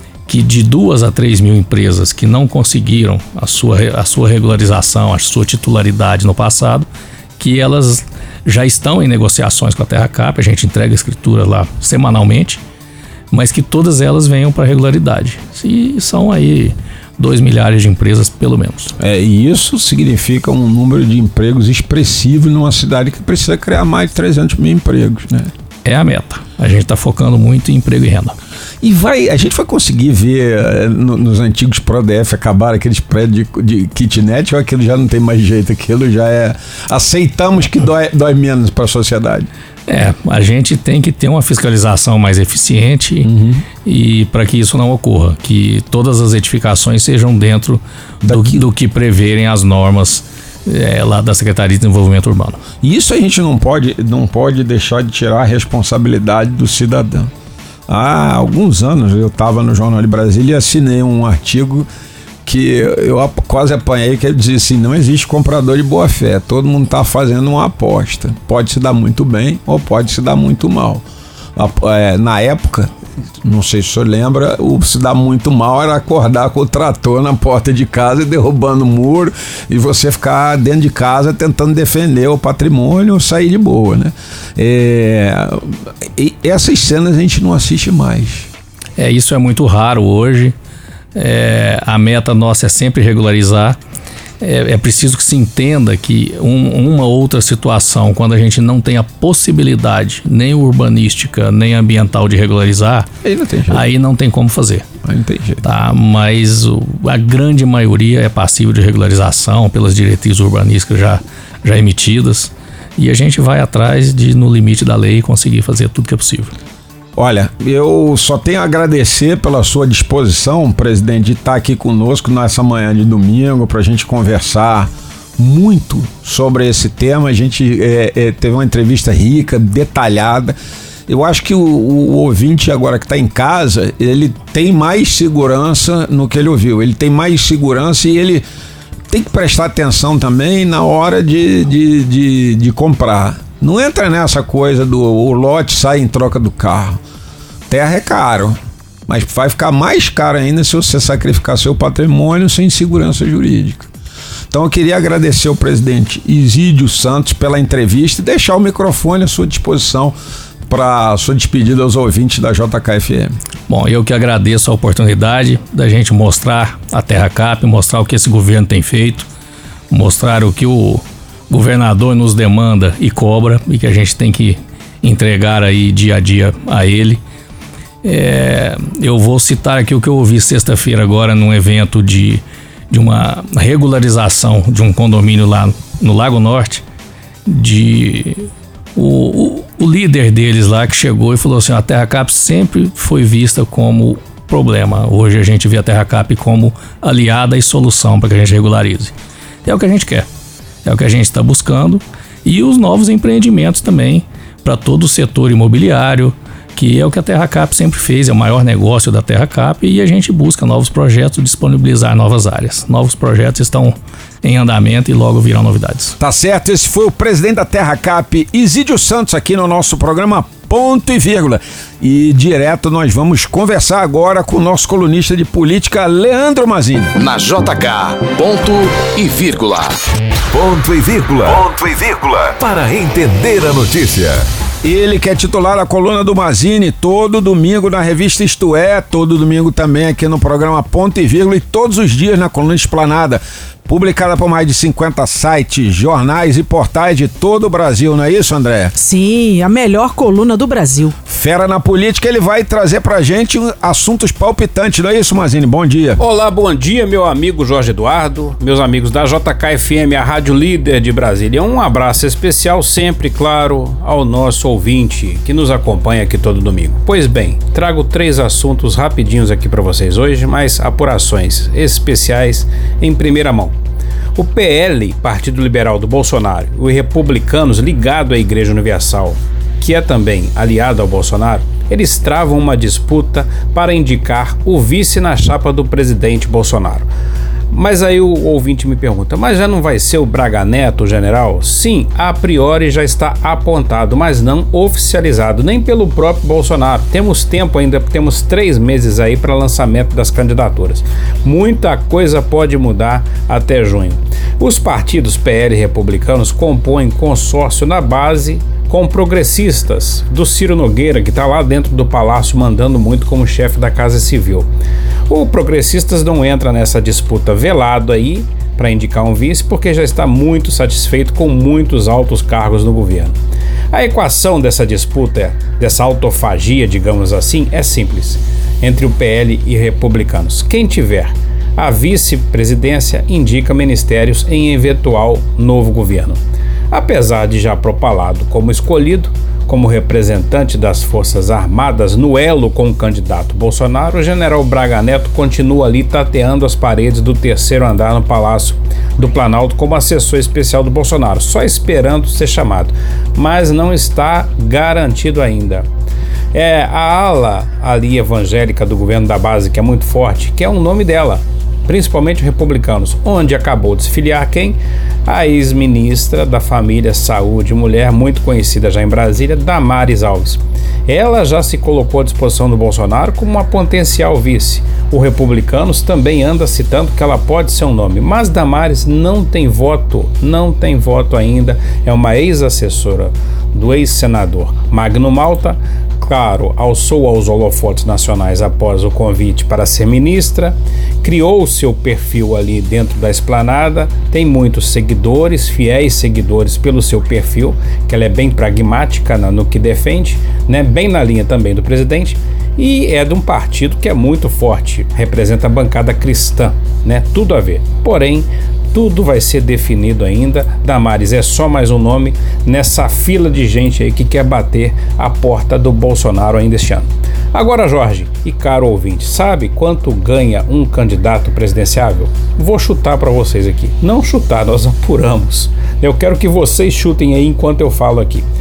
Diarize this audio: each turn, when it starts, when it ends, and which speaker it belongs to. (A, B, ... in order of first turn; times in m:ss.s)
0:00.3-0:06.9 A
0:07.4-0:12.6 A
0:13.3-0:18.9 A
0:19.0-0:25.5 B
0:25.8-0:28.4 A
0:28.8-0:39.5 B
0:39.9-0:43.3 A
0:43.2-0:43.6 B
0:43.8-0:52.6 A
0:48.2-0:48.7 B
0:52.8-0:57.3 B
0:57.9-1:01.9 B
1:02.4-1:11.0 B
1:11.6-1:28.5 B
1:29.0-1:30.5 A
1:31.1-1:33.8 A
1:34.4-1:43.1 A
1:43.2-1:43.8 B
1:43.7-1:44.8 A
1:45.0-1:45.6 B
1:45.6-1:56.5 A
1:57.2-2:10.6 B
2:11.1-2:18.4 B
2:19.1-2:27.0 B
2:27.7-2:33.9 B
2:34.5-2:40.2 B
2:40.7-2:43.3 B
2:43.7-2:49.3 A
2:49.9-2:57.2 A
2:58.0-3:06.8 A
3:07.4-3:19.1 A
3:19.6-3:20.3 A
3:20.8-3:36.2 A
3:36.2-3:47.1 B
3:47.2-3:50.0 C
3:50.5-3:54.4 D
3:54.8-4:08.9 B
4:09.0-4:11.2 E
4:11.2-4:16.2 B
4:16.2-4:33.8 F
4:34.4-4:47.1 F
4:47.7-5:14.7 F
5:15.3-5:23.4 F
5:23.9-5:36.4 F
5:36.9-5:55.8 F
5:56.5-7:08.5 F